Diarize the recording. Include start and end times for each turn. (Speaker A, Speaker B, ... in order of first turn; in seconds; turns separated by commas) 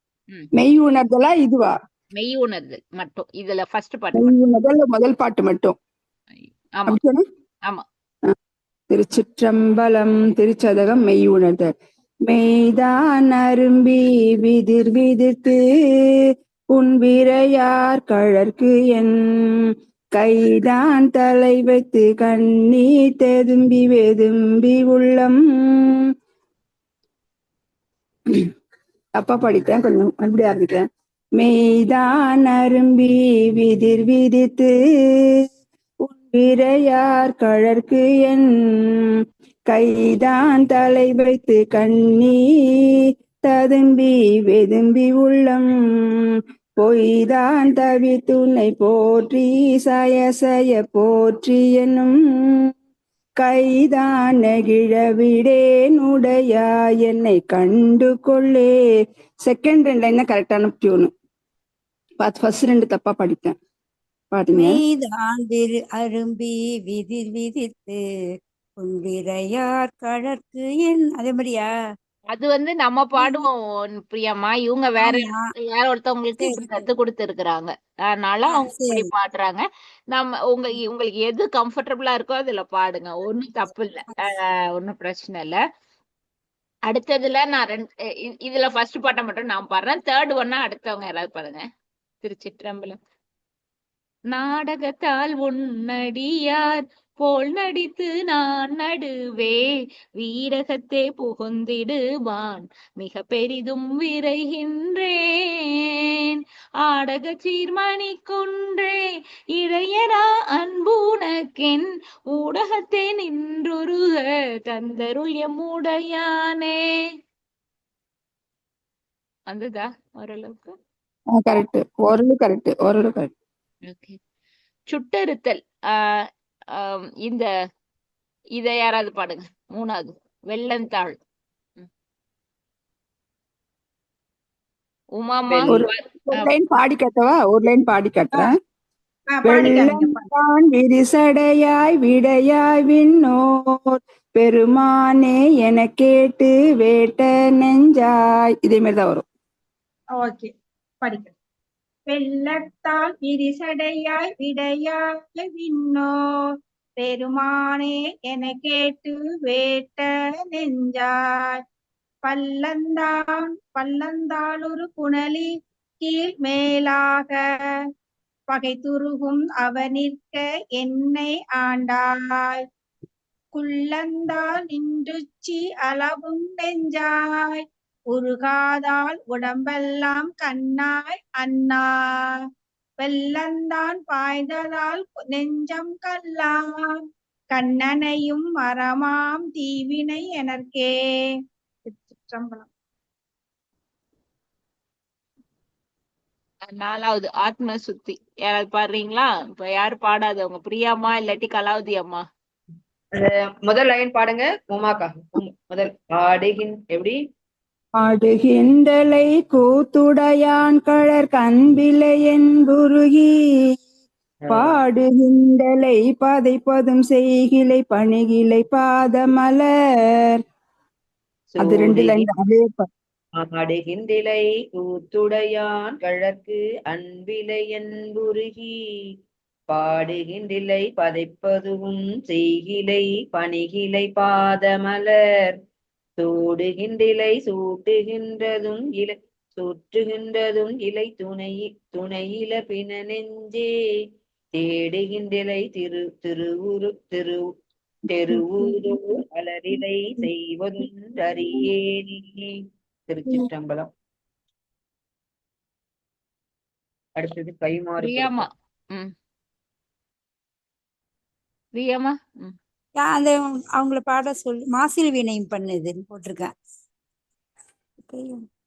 Speaker A: 0.6-1.7, Speaker B: 2.2-4.3, Speaker A: 4.2-5.7, Speaker B: 6.4-7.0, Speaker A: 6.9-7.2, Speaker A: 8.9-11.7, Speaker A: 12.3-15.6, Speaker A: 16.7-19.1, Speaker A: 20.1-25.9, Speaker A: 29.2-30.8, Speaker A: 31.4-34.7, Speaker A: 36.0-38.5, Speaker A: 39.7-42.4, Speaker A: 43.5-45.7, Speaker A: 46.8-52.1, Speaker A: 53.4-58.7, Speaker A: 59.5-61.1, Speaker A: 62.2-63.5, Speaker A: 64.3-64.8, Speaker C: 64.5-68.0, Speaker C: 68.8-71.7, Speaker B: 72.3-85.6, Speaker C: 73.2-73.5, Speaker C: 75.0-75.4, Speaker C: 76.4-76.9, Speaker C: 78.5-79.1, Speaker B: 86.9-91.6, Speaker B: 92.2-93.0, Speaker B: 94.3-99.7, Speaker B: 100.2-105.2, Speaker B: 106.8-109.0, Speaker B: 109.6-116.8, Speaker B: 119.5-120.8, Speaker A: 121.3-123.3, Speaker B: 123.9-124.2, Speaker B: 124.9-125.6, Speaker B: 126.8-127.5, Speaker B: 128.6-131.2, Speaker B: 135.2-136.5, Speaker D: 135.5-135.8, Speaker A: 135.7-138.5, Speaker E: 139.3-140.3, Speaker A: 139.4-143.4, Speaker A: 144.3-149.2, Speaker E: 150.2-150.5, Speaker E: 151.0-151.3, Speaker E: 152.1-156.1, Speaker E: 157.0-161.6, Speaker E: 162.2-165.5, Speaker E: 166.0-167.4, Speaker E: 168.5-172.6, Speaker E: 173.5-182.4, Speaker E: 183.0-187.0, Speaker E: 187.5-190.9, Speaker E: 191.8-192.7, Speaker B: 196.7-202.2, Speaker D: 203.2-207.2, Speaker A: 208.0-213.3, Speaker D: 214.4-214.8, Speaker A: 214.5-219.7, Speaker D: 221.5-222.3, Speaker A: 221.6-222.9, Speaker D: 223.4-228.7, Speaker D: 229.7-235.1, Speaker D: 236.2-243.7, Speaker D: 244.5-247.4, Speaker D: 248.1-252.5, Speaker D: 253.1-253.9, Speaker D: 257.2-258.5, Speaker B: 258.0-259.1, Speaker B: 261.8-262.5, Speaker C: 263.0-266.5, Speaker C: 268.0-268.4